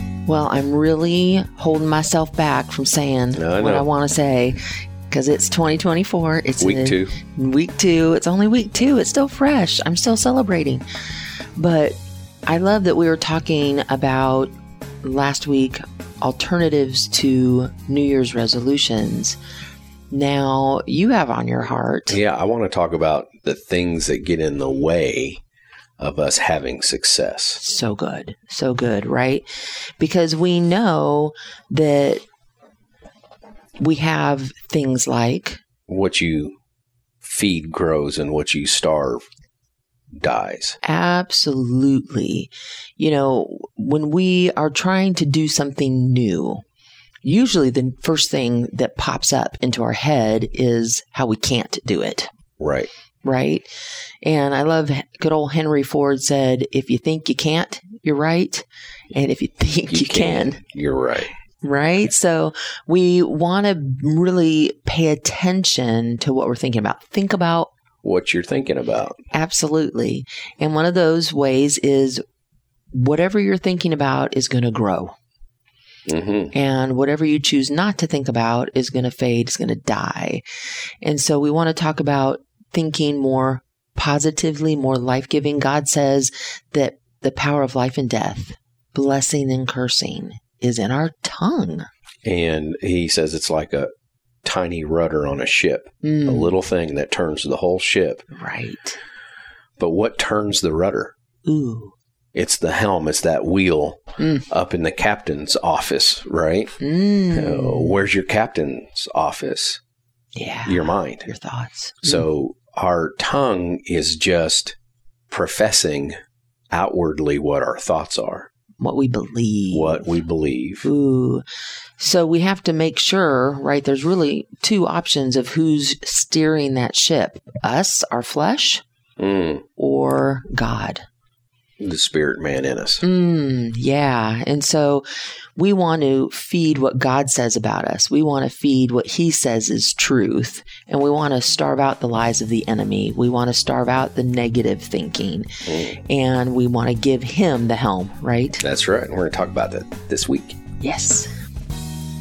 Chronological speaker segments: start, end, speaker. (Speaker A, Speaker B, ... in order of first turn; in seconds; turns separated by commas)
Speaker A: 0.3-10.8, Speaker B: 3.4-3.9, Speaker B: 6.6-7.2, Speaker A: 11.6-19.4, Speaker A: 20.1-22.2, Speaker B: 22.1-25.4, Speaker B: 26.0-27.6, Speaker A: 27.6-29.5, Speaker A: 30.0-32.2, Speaker A: 33.8-35.6, Speaker B: 35.9-36.6, Speaker B: 37.2-39.2, Speaker B: 40.2-40.8, Speaker A: 40.8-46.6, Speaker A: 47.2-52.3, Speaker B: 52.6-52.9, Speaker A: 53.2-53.7, Speaker A: 54.2-60.6, Speaker B: 59.9-61.3, Speaker A: 61.6-67.7, Speaker B: 68.0-69.2, Speaker A: 69.3-72.2, Speaker A: 72.9-75.1, Speaker B: 76.1-76.5, Speaker A: 76.5-80.4, Speaker A: 81.0-91.9, Speaker B: 92.2-93.9, Speaker B: 94.4-98.2, Speaker A: 96.0-96.5, Speaker A: 98.3-99.0, Speaker B: 99.8-101.1, Speaker A: 101.5-101.9, Speaker B: 102.3-109.8, Speaker A: 104.2-104.4, Speaker A: 106.8-108.0, Speaker A: 110.3-112.2, Speaker B: 110.7-111.3, Speaker B: 112.0-114.8, Speaker B: 115.3-116.2, Speaker B: 116.7-118.5, Speaker A: 118.8-120.1, Speaker B: 119.7-120.9, Speaker A: 120.8-121.4, Speaker A: 122.0-128.8, Speaker B: 129.2-129.7, Speaker A: 129.8-131.0, Speaker B: 131.8-133.0, Speaker A: 133.0-135.1, Speaker A: 135.6-145.5, Speaker B: 145.7-146.0, Speaker A: 146.1-148.6, Speaker B: 148.6-150.6, Speaker A: 150.8-151.3